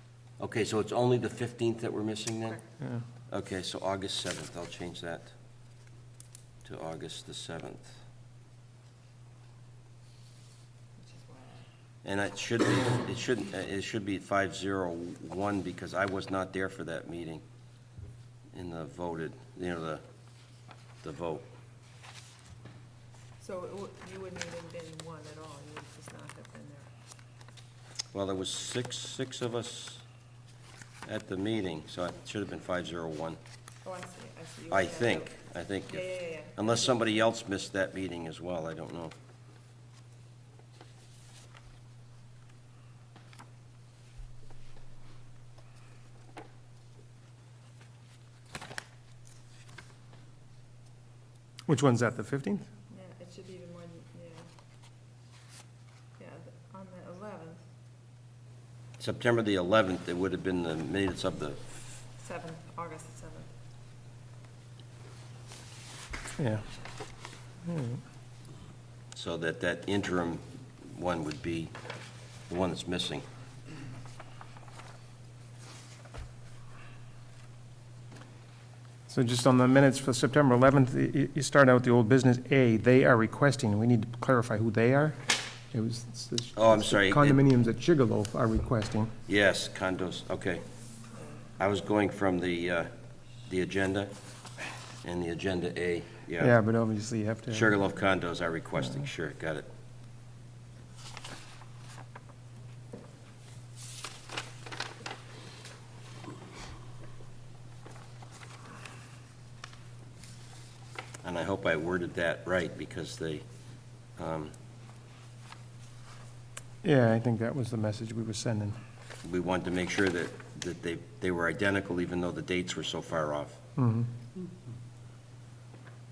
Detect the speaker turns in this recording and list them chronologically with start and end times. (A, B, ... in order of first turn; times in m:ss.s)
0:00.4-0:02.6 A
0:03.3-0:05.3 A
0:06.6-0:07.9 A
0:11.0-0:11.7 B
0:12.0-0:17.4 A
0:18.5-0:20.0 A
0:21.0-0:21.5 A
0:23.4-0:26.9 B
0:28.1-0:30.0 A
0:31.0-0:33.4 A
0:33.8-0:35.4 B
0:34.7-0:39.1 A
0:35.9-0:37.1 B
0:51.7-0:52.7 C
0:52.9-0:54.5 B
0:56.2-0:57.6 B
0:59.0-1:01.6 A
1:02.2-1:03.5 B
1:06.4-1:06.6 C
1:07.6-1:08.0 C
1:09.1-1:11.7 A
1:12.5-1:13.2 A
1:19.1-1:25.2 C
1:25.7-1:29.1 C
1:26.6-1:27.4 A
1:29.3-1:30.6 A
1:31.6-1:32.9 A
1:33.4-1:34.1 A
1:35.0-1:36.5 A
1:36.4-1:37.7 C
1:37.5-1:39.7 A
1:51.2-1:53.4 A
1:54.2-1:54.5 A
1:56.8-1:58.8 C
1:59.2-2:03.6 A
2:03.8-2:04.1 C